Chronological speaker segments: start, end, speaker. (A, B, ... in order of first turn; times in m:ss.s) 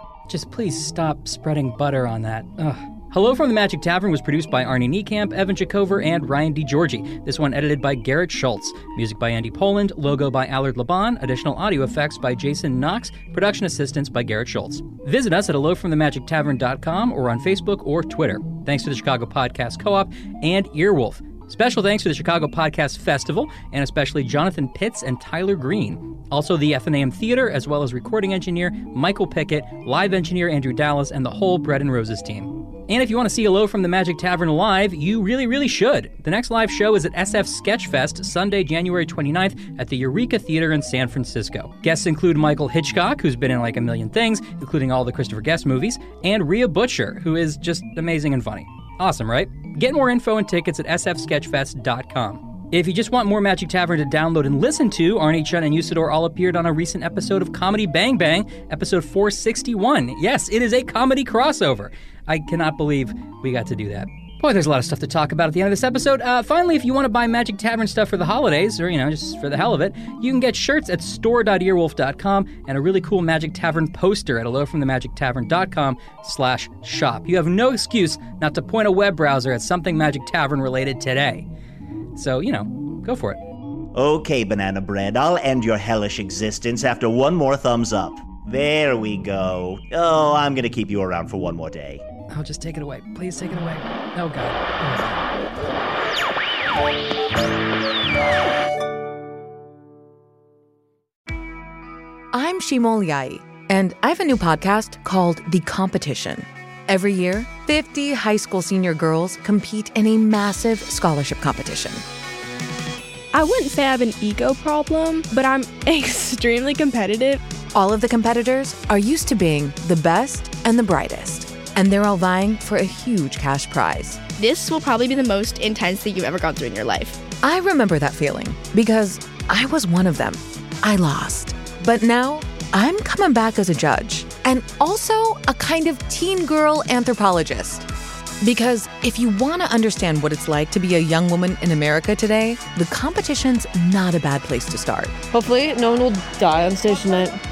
0:00.3-1:21.5 A
1:22.1-1:23.4 A
1:23.9-1:32.0 B
1:32.3-1:35.2 A
1:42.3-1:52.0 C
1:53.3-1:57.4 D
1:57.7-2:04.2 C
2:04.4-2:07.2 D
2:07.4-2:17.8 C
2:18.4-2:25.2 C
2:25.3-2:27.4 E